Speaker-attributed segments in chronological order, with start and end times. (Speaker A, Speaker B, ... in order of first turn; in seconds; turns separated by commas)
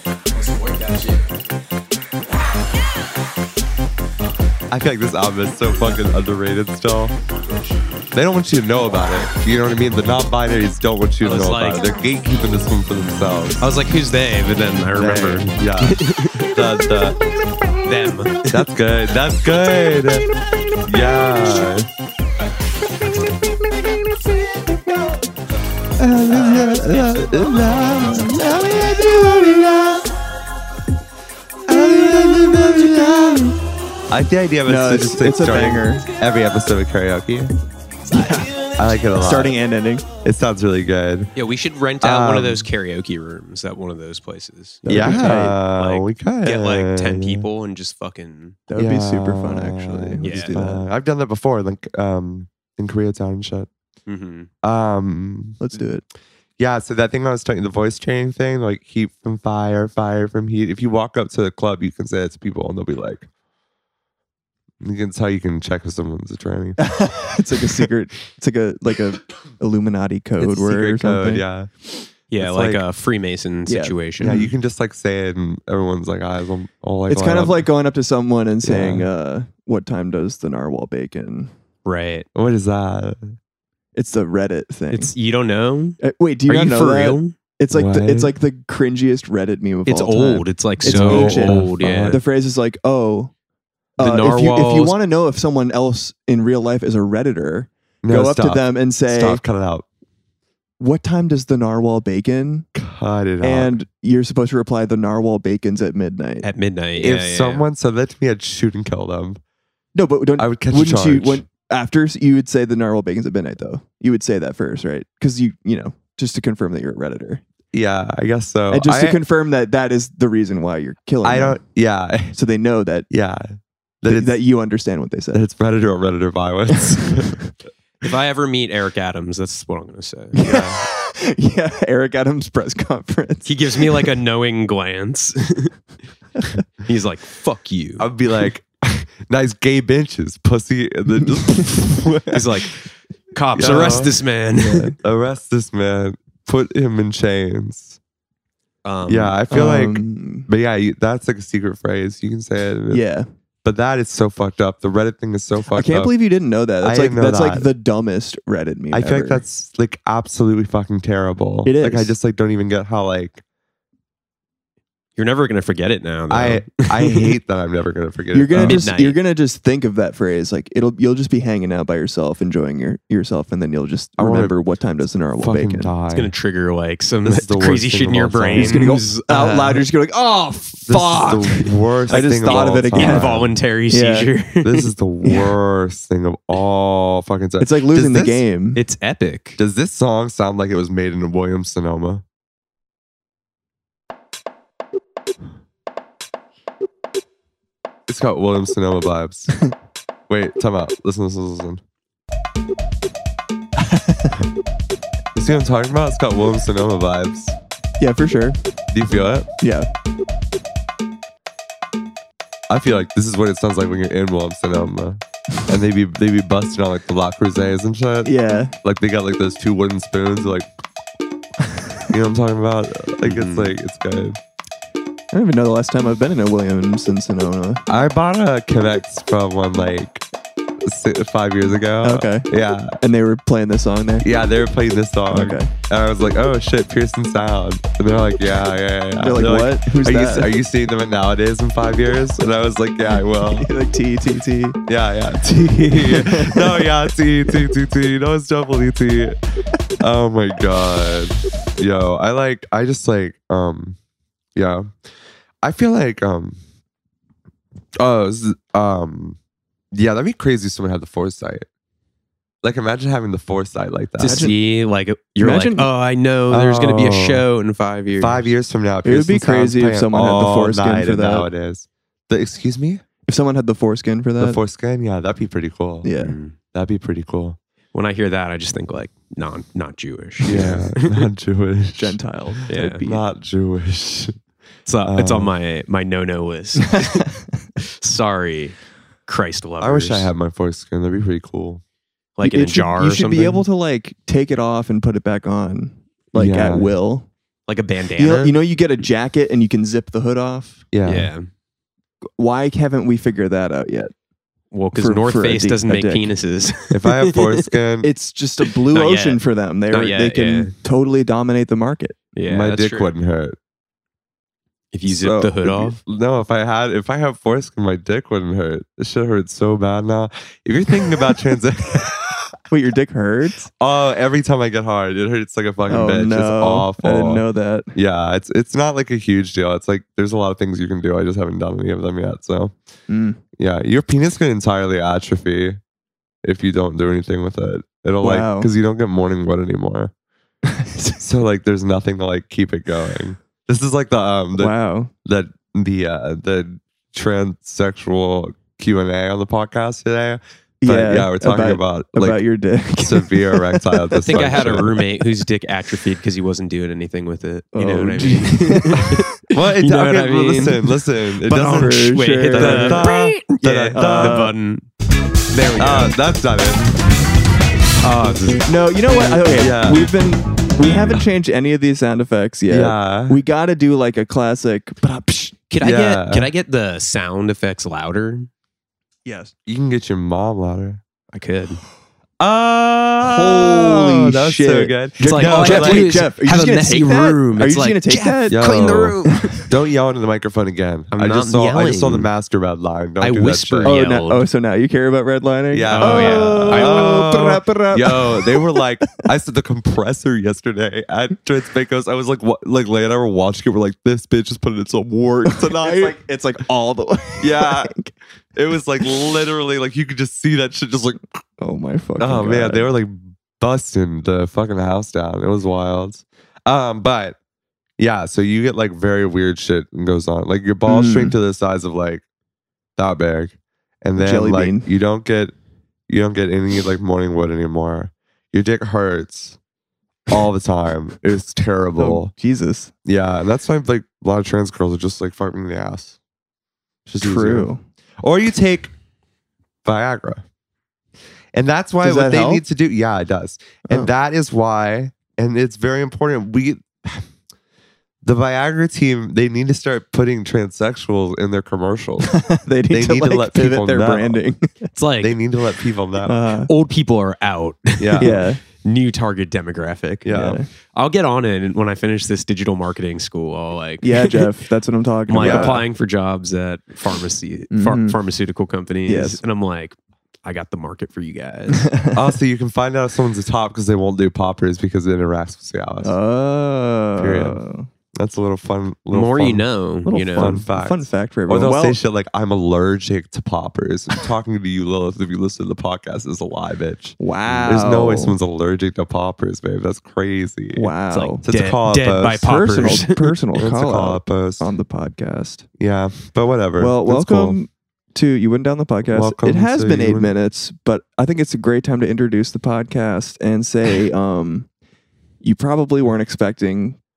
Speaker A: 0.3-1.3, Speaker B: 4.7-7.2, Speaker B: 8.1-13.7, Speaker A: 11.2-11.8, Speaker A: 13.6-16.5, Speaker B: 15.0-17.2, Speaker A: 17.9-18.6, Speaker B: 18.5-20.3, Speaker B: 20.8-21.9, Speaker B: 26.0-30.0, Speaker B: 31.7-33.6, Speaker B: 34.1-37.5, Speaker C: 34.6-36.1, Speaker C: 38.1-38.5, Speaker B: 38.8-39.5, Speaker C: 39.2-40.1, Speaker B: 40.2-41.3, Speaker A: 41.4-48.6, Speaker B: 42.0-42.7, Speaker C: 44.9-45.6, Speaker B: 44.9-47.5, Speaker C: 48.7-50.9, Speaker B: 48.8-53.7, Speaker A: 50.2-50.6, Speaker A: 54.1-54.5, Speaker B: 54.6-55.6, Speaker C: 55.6-56.0, Speaker B: 56.6-63.3, Speaker B: 64.8-66.8, Speaker C: 66.8-71.5, Speaker B: 70.4-71.7, Speaker A: 72.3-74.5, Speaker B: 72.4-72.8, Speaker C: 73.7-74.5, Speaker B: 74.2-77.7, Speaker C: 77.1-81.5, Speaker B: 78.6-79.1, Speaker A: 81.8-82.3, Speaker B: 82.3-83.4, Speaker C: 84.0-85.1, Speaker A: 84.9-87.4, Speaker C: 86.0-93.3, Speaker B: 87.7-88.3, Speaker A: 89.9-92.2, Speaker B: 90.8-92.2, Speaker C: 94.0-99.4, Speaker A: 94.0-95.0, Speaker B: 98.0-99.9, Speaker C: 100.8-102.7, Speaker B: 102.8-103.8, Speaker C: 103.4-106.5, Speaker A: 106.4-107.7, Speaker B: 107.0-109.4, Speaker C: 110.0-117.4, Speaker B: 110.4-111.4, Speaker B: 117.7-119.2, Speaker C: 118.7-121.6, Speaker B: 121.2-122.3, Speaker C: 122.3-123.1, Speaker B: 123.1-124.4, Speaker C: 124.0-125.4, Speaker B: 125.3-127.3, Speaker C: 126.8-127.5, Speaker A: 128.0-130.4, Speaker C: 130.3-134.1, Speaker B: 130.4-130.8, Speaker A: 133.4-135.7, Speaker A: 136.8-138.1, Speaker B: 138.0-142.4, Speaker A: 142.3-145.0, Speaker B: 143.6-148.0, Speaker A: 148.8-149.4, Speaker B: 149.1-153.0, Speaker C: 149.5-150.5, Speaker C: 152.9-153.3, Speaker B: 153.7-156.1, Speaker C: 155.7-159.4, Speaker B: 156.8-157.7, Speaker B: 158.9-163.4, Speaker C: 161.7-162.1, Speaker A: 165.2-167.3, Speaker B: 166.3-168.8, Speaker C: 168.3-175.9, Speaker A: 168.6-169.2, Speaker B: 174.2-174.6, Speaker B: 175.4-176.3, Speaker A: 176.1-179.9, Speaker B: 177.2-178.9, Speaker C: 178.6-184.3, Speaker B: 180.9-183.5, Speaker A: 180.9-181.5, Speaker A: 182.9-184.9, Speaker B: 184.6-188.4, Speaker C: 185.2-185.5, Speaker C: 187.6-188.8, Speaker A: 188.8-189.6, Speaker B: 189.6-192.2, Speaker B: 198.1-199.5, Speaker B: 200.3-201.8, Speaker C: 203.8-204.4, Speaker B: 205.3-207.6, Speaker C: 208.0-208.6, Speaker B: 208.9-209.5, Speaker C: 209.6-209.9, Speaker B: 212.7-218.3, Speaker C: 218.2-218.7, Speaker B: 218.8-220.7, Speaker B: 222.1-224.4, Speaker A: 223.2-223.8, Speaker C: 225.3-227.8, Speaker B: 227.9-230.2, Speaker B: 230.8-233.0, Speaker C: 232.0-232.5, Speaker C: 233.0-234.3, Speaker B: 234.2-243.7, Speaker C: 235.3-235.7, Speaker C: 239.2-240.5, Speaker C: 243.5-244.8, Speaker B: 244.9-249.4, Speaker C: 245.5-247.0, Speaker B: 250.0-254.0, Speaker B: 254.6-254.9, Speaker B: 255.6-256.6, Speaker B: 258.0-259.4, Speaker B: 259.9-261.7, Speaker B: 262.6-264.5, Speaker A: 264.2-268.5, Speaker C: 264.2-264.6, Speaker C: 265.4-265.9, Speaker B: 266.5-267.4, Speaker B: 268.2-273.1, Speaker C: 269.0-271.5, Speaker C: 273.3-274.6, Speaker B: 274.4-276.1, Speaker C: 276.0-276.4, Speaker A: 276.2-276.6, Speaker B: 276.7-277.6, Speaker A: 277.9-281.2, Speaker B: 280.4-282.2, Speaker C: 281.9-283.2, Speaker A: 282.7-283.0, Speaker B: 283.0-284.4, Speaker A: 284.9-290.3, Speaker B: 285.1-285.5, Speaker C: 286.9-287.4, Speaker B: 289.8-291.8, Speaker A: 292.4-293.6, Speaker C: 292.4-297.3, Speaker B: 296.3-296.9, Speaker A: 297.7-298.6, Speaker C: 298.2-300.9, Speaker B: 300.9-301.3, Speaker A: 301.1-301.5, Speaker C: 302.4-304.1, Speaker A: 304.7-307.7, Speaker C: 304.9-306.3, Speaker B: 306.9-308.1, Speaker C: 308.0-312.2, Speaker A: 308.9-310.7, Speaker A: 312.4-313.1, Speaker B: 312.5-313.6, Speaker A: 314.9-316.0, Speaker B: 315.1-322.5, Speaker C: 322.7-323.7, Speaker B: 323.8-332.8, Speaker C: 325.9-327.9, Speaker C: 333.1-333.4, Speaker B: 333.6-335.8, Speaker B: 336.4-340.1, Speaker C: 338.2-338.7, Speaker C: 340.6-341.2, Speaker B: 341.2-344.7, Speaker C: 344.6-345.1, Speaker B: 345.2-352.4, Speaker C: 350.8-355.0, Speaker B: 353.0-354.9, Speaker A: 354.2-364.9, Speaker C: 357.8-359.2, Speaker B: 359.5-364.4, Speaker C: 361.5-363.1, Speaker C: 363.9-364.6, Speaker A: 365.5-366.1, Speaker B: 365.8-366.9, Speaker A: 368.0-368.6, Speaker C: 368.7-375.6, Speaker B: 369.1-370.1, Speaker B: 370.9-371.2, Speaker B: 372.7-373.4, Speaker A: 375.7-378.5, Speaker B: 375.8-376.5, Speaker C: 379.2-379.5, Speaker B: 379.7-381.0, Speaker A: 381.3-381.8, Speaker B: 382.4-386.2, Speaker C: 383.2-388.7, Speaker A: 385.2-389.6, Speaker B: 388.5-394.0, Speaker C: 389.3-389.7, Speaker A: 391.1-392.3, Speaker A: 393.2-394.5, Speaker C: 393.8-398.9, Speaker B: 395.7-406.2, Speaker A: 395.9-397.1, Speaker C: 405.4-408.1, Speaker B: 407.4-407.9, Speaker B: 408.6-411.2, Speaker C: 411.6-412.9, Speaker B: 412.2-417.4, Speaker B: 418.0-422.2, Speaker C: 420.9-421.4, Speaker B: 423.0-425.5, Speaker C: 424.2-424.9, Speaker B: 426.1-429.6, Speaker B: 430.3-432.3, Speaker C: 432.0-432.9, Speaker B: 433.1-436.2, Speaker B: 437.1-437.7, Speaker C: 437.2-437.8, Speaker B: 438.2-438.9, Speaker B: 439.9-440.4, Speaker B: 441.5-447.3, Speaker C: 442.0-442.6, Speaker B: 448.2-454.4, Speaker C: 452.2-454.9, Speaker A: 454.9-455.4, Speaker B: 455.2-456.4, Speaker C: 456.2-456.7, Speaker A: 456.7-460.3, Speaker B: 458.0-458.5, Speaker C: 458.2-458.6, Speaker B: 460.2-460.6, Speaker C: 460.3-460.7, Speaker A: 460.9-464.5, Speaker C: 464.0-465.8, Speaker A: 465.3-471.9, Speaker B: 465.4-465.8, Speaker C: 467.7-468.2, Speaker C: 469.1-469.4, Speaker C: 471.7-472.4, Speaker B: 472.1-476.1, Speaker C: 476.0-477.9, Speaker B: 477.2-477.6, Speaker B: 478.1-479.7, Speaker A: 479.1-480.6, Speaker C: 480.1-482.0, Speaker B: 480.3-490.9, Speaker C: 487.2-488.4, Speaker C: 490.8-491.4, Speaker A: 491.1-493.4, Speaker B: 491.4-493.0, Speaker C: 492.4-495.7, Speaker B: 493.6-494.7, Speaker B: 495.8-497.6, Speaker C: 496.8-504.7, Speaker B: 499.1-500.3, Speaker C: 505.4-507.0